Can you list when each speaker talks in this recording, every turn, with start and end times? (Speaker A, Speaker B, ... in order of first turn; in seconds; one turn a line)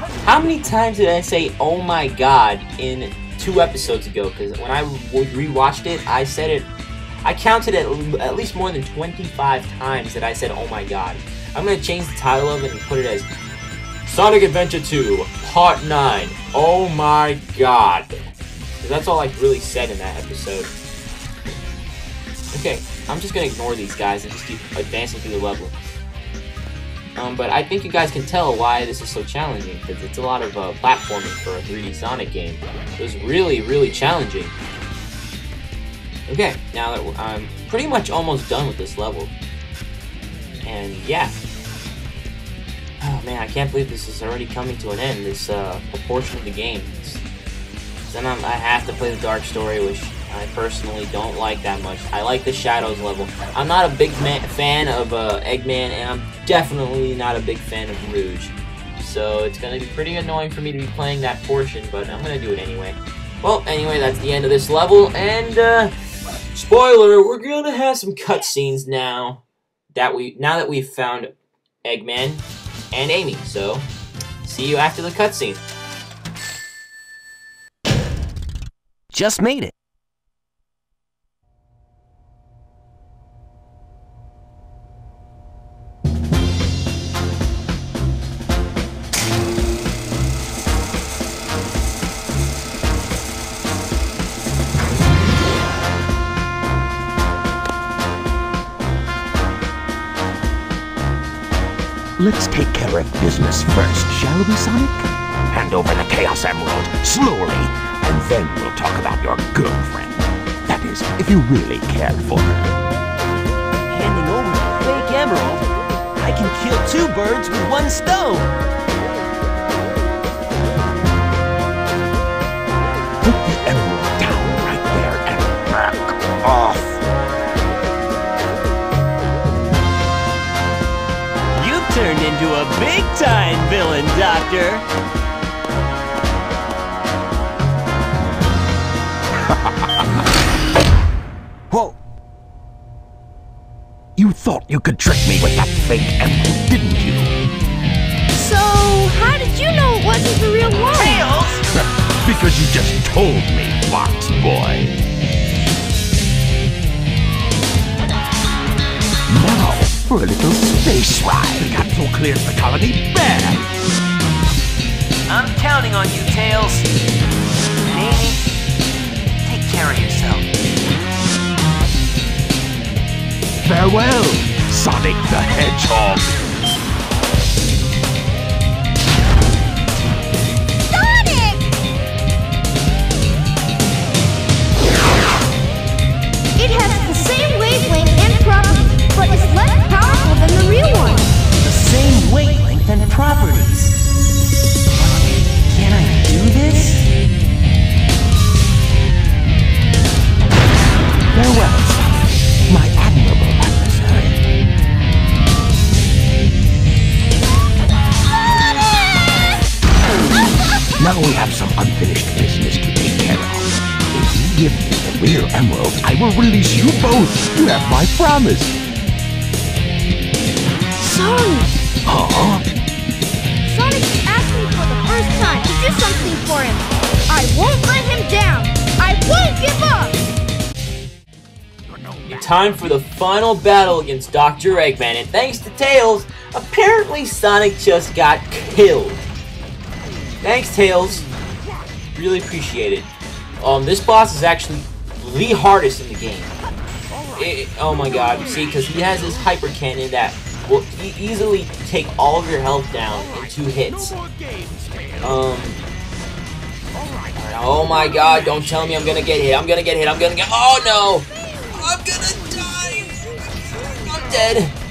Speaker A: 0.2-6.7
Speaker A: 7.2-13.3
Speaker A: 14.1-18.3
Speaker A: 18.8-20.7
Speaker A: 22.5-25.8
Speaker A: 27.1-34.5
Speaker A: 36.3-39.3
Speaker A: 40.6-41.3
Speaker A: 43.0-47.2
Speaker A: 48.1-65.9
Speaker A: 66.5-73.9
Speaker A: 74.4-75.6
Speaker B: 79.1-79.7
Speaker B: 102.2-112.7
Speaker C: 113.9-115.6
Speaker B: 114.5-115.4
Speaker C: 116.2-118.4
Speaker B: 116.2-118.2
Speaker B: 123.2-127.0
Speaker C: 131.6-134.8
Speaker B: 141.7-141.9
Speaker B: 144.2-147.3
Speaker D: 148.3-151.3
Speaker B: 150.9-155.0
Speaker B: 159.3-163.6
Speaker C: 165.3-166.8
Speaker C: 169.5-170.3
Speaker B: 173.6-176.4
Speaker D: 180.9-181.7
Speaker D: 186.6-191.3
Speaker B: 191.6-193.9
Speaker B: 195.0-197.0
Speaker B: 201.3-204.4
Speaker B: 211.0-218.8
Speaker D: 221.0-221.7
Speaker B: 222.1-222.7
Speaker D: 223.7-230.2
Speaker A: 232.3-239.2
Speaker A: 240.4-241.3
Speaker A: 242.1-246.5
Speaker A: 247.3-254.2
Speaker B: 254.1-255.2
Speaker A: 255.2-255.8
Speaker A: 257.3-264.7